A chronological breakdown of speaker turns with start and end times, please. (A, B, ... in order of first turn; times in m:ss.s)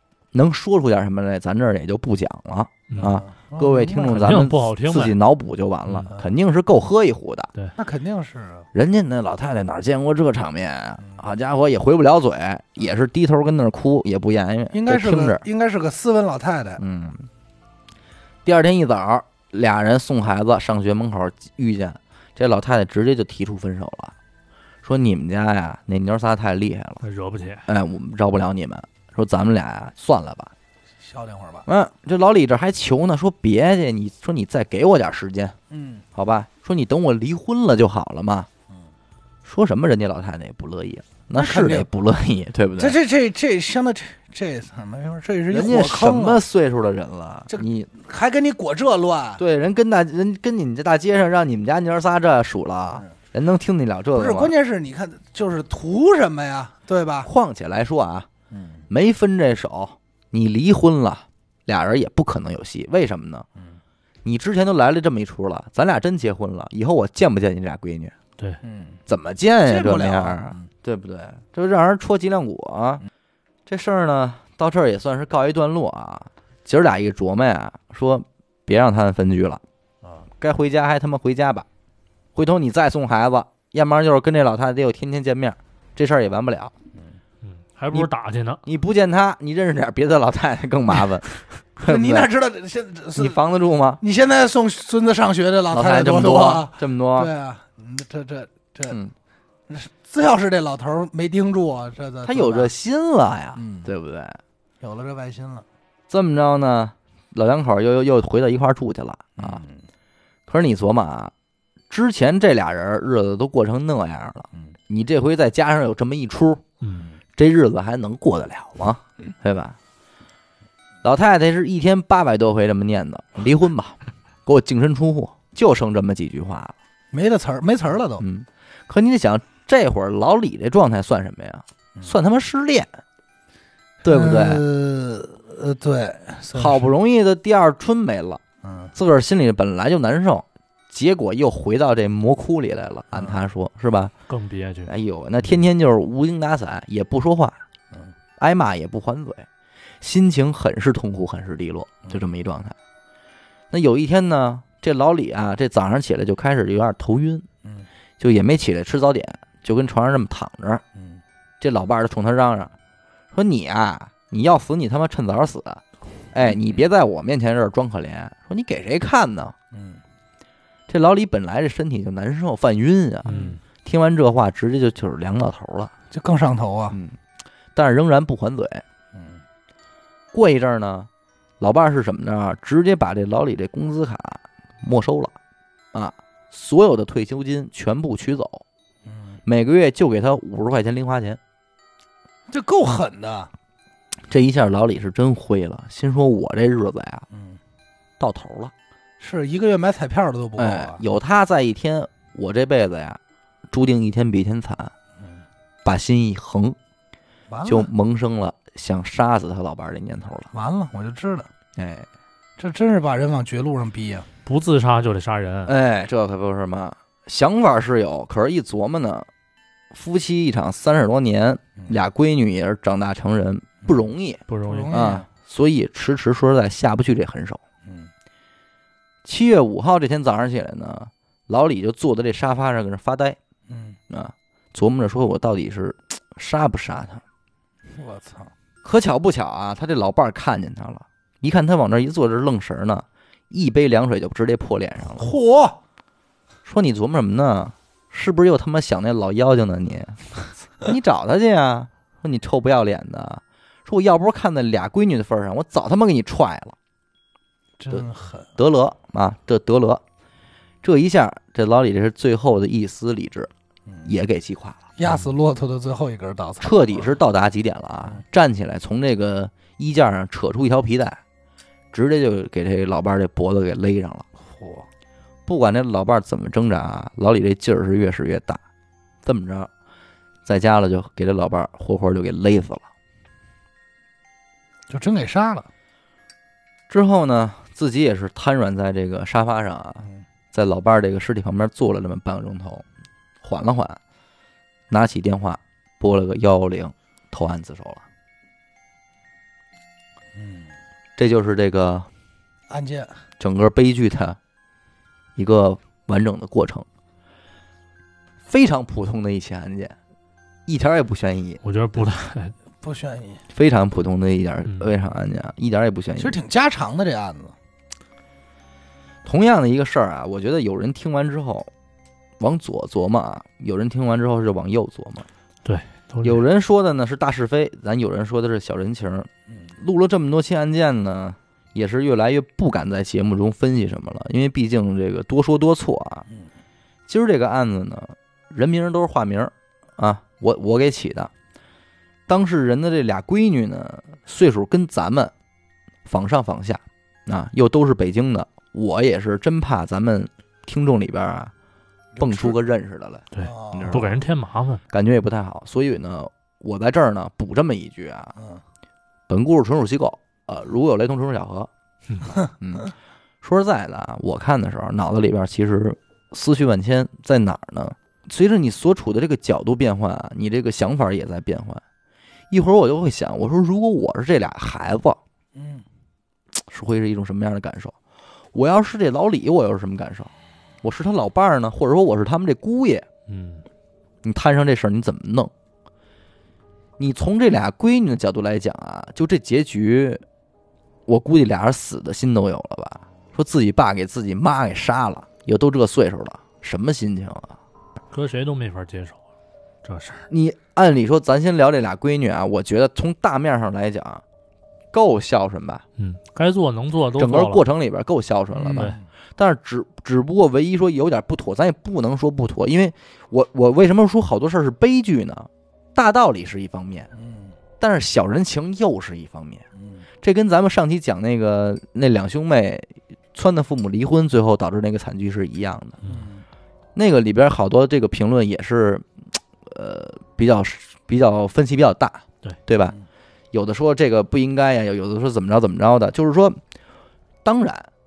0:00.3-0:07.5 A
0:02.9-0:03.2 B
0:03.0-0:04.3 C
0:04.0-0:05.2 B
0:07.8-0:08.7 C
0:08.7-0:15.4 A
0:14.7-0:16.8 C
0:16.8-0:17.3 A
0:18.4-0:24.1 A
0:24.8-0:27.0 A
0:27.0-0:27.6 B
0:27.7-0:30.5 A
0:31.0-0:31.6 C
0:31.6-0:35.6 A
0:35.7-0:36.0 C
0:36.1-0:38.5 A
0:39.4-0:43.0 A
0:41.3-0:41.9 C
0:42.8-0:46.4 C
0:45.5-0:47.9 A
0:47.5-0:49.4 C
0:49.4-0:54.5 A
0:54.1-0:57.3 C
0:57.2-0:58.3 A
0:58.5-0:58.8 C
0:58.9-1:03.4 A
1:04.2-1:08.1 A
1:08.6-1:09.0 C
1:09.1-1:13.0 A
1:09.6-1:10.7 C
1:13.7-1:19.6 A
1:20.4-1:21.6 A
1:22.3-1:26.7 A
1:27.4-1:28.6 B
1:28.6-1:32.3 A
1:31.8-1:33.4 C
1:33.2-1:34.0 A
1:34.0-1:39.0 C
1:35.7-1:37.3 A
1:39.7-1:42.7 C
1:42.2-1:44.4 A
1:43.6-1:43.9 C
1:44.8-1:45.6 C
1:46.1-1:49.6 A
1:49.4-1:49.8 C
1:50.5-1:51.3 A
1:51.9-1:56.6 A
1:56.8-1:57.1 B
1:57.4-1:59.8 A
2:01.0-2:06.7 A
2:07.1-2:08.2 C
2:08.2-2:12.9 A
2:14.0-2:14.6 A
2:14.0-2:16.9 C
2:16.5-2:18.4 A
2:18.6-2:18.9 C
2:18.9-2:24.1 A
2:24.3-2:24.9 B
2:24.8-2:27.6 A
2:28.4-2:29.5 A
2:30.0-2:32.7 A
2:33.7-2:37.4 A
2:38.2-2:40.8 A
2:40.9-2:41.2 C
2:41.6-2:42.7 A
2:43.3-2:49.5 A
2:49.7-2:50.0 C
2:50.9-2:55.9 A
2:53.2-2:53.6 B
2:53.3-2:53.6 C
2:56.1-2:57.0 C
2:56.9-2:57.2 A
2:57.7-2:58.8 A
2:59.1-2:59.4 C
3:00.3-3:01.1 A
3:01.6-3:05.3 A
3:05.9-3:08.6 A
3:09.0-3:09.4 C
3:09.4-3:11.4 A
3:12.5-3:13.5 C
3:14.3-3:17.2 A
3:17.3-3:17.6 C
3:18.2-3:18.7 A
3:19.2-3:21.0 C
3:20.6-3:23.2 A
3:23.7-3:24.9 A
3:25.2-3:25.4 C
3:25.8-3:26.8 A
3:27.5-3:27.9 C
3:27.6-3:30.5 A
3:30.5-3:31.5 C
3:31.8-3:32.1 A
3:32.6-3:34.3 C
3:34.4-3:35.7 B
3:35.6-3:39.3 A
3:39.9-3:47.6 A
3:44.5-3:45.0 B
3:44.6-3:45.2 C
3:47.8-3:48.1 C
3:49.2-3:53.4 A
3:53.7-3:54.0 C
3:54.1-3:57.2 A
3:57.9-3:58.5 C
3:58.8-4:05.3 A
4:05.1-4:05.8 C
4:06.6-4:10.2 A
4:10.8-4:16.8 A
4:17.8-4:18.5 C
4:17.9-4:20.0 A
4:20.8-4:23.5 A
4:24.0-4:24.9 A
4:25.0-4:27.1 C
4:26.6-4:31.2 A
4:31.9-4:34.2 A
4:34.4-4:34.9 C
4:35.5-4:38.6 A
4:39.2-4:39.7 A
4:40.4-4:42.8 A
4:44.9-4:45.7 C
4:46.9-4:52.8 A
4:53.4-4:54.0 A
4:54.9-4:58.0 A
5:00.3-5:00.7 C
5:01.2-5:02.1 A
5:02.7-5:03.2 C
5:03.4-5:04.4 A
5:05.4-5:06.8 A
5:08.4-5:10.0 A
5:10.7-5:11.6 A
5:11.6-5:12.5 B
5:12.8-5:13.4 C
5:13.5-5:16.4 A
5:16.2-5:17.5 C
5:19.2-5:21.7 A
5:22.4-5:25.3 A
5:25.6-5:26.4 B
5:26.2-5:36.2 A
5:37.1-5:41.3 A
5:42.3-5:45.3 A
5:46.0-5:51.5 A
5:52.2-5:52.6 C
5:52.2-5:54.2 A
5:53.3-5:54.8 B
5:53.4-5:54.0 C
5:54.9-5:58.3 A
5:59.3-6:01.7 A
6:02.6-6:02.9 A
6:03.4-6:11.8 A
6:12.5-6:15.2 A
6:15.5-6:15.8 C
6:16.7-6:17.9 A
6:18.5-6:20.3 A
6:20.8-6:23.0 A
6:23.3-6:23.6 B
6:24.2-6:25.5 A
6:27.0-6:30.2 A
6:31.1-6:37.6 A
6:38.1-6:39.2 B
6:39.8-6:40.2 B
6:40.3-6:44.2 A
6:44.9-6:45.8 A
6:46.0-6:47.6 B
6:47.2-6:57.1 A
6:48.5-6:49.0 C
6:57.1-6:57.5 C
6:57.8-6:59.6 A
6:59.8-7:00.0 C
7:00.2-7:06.0 A
7:06.0-7:06.4 C
7:06.9-7:09.0 A
7:09.7-7:13.0 A
7:13.5-7:16.6 A
7:17.4-7:17.9 A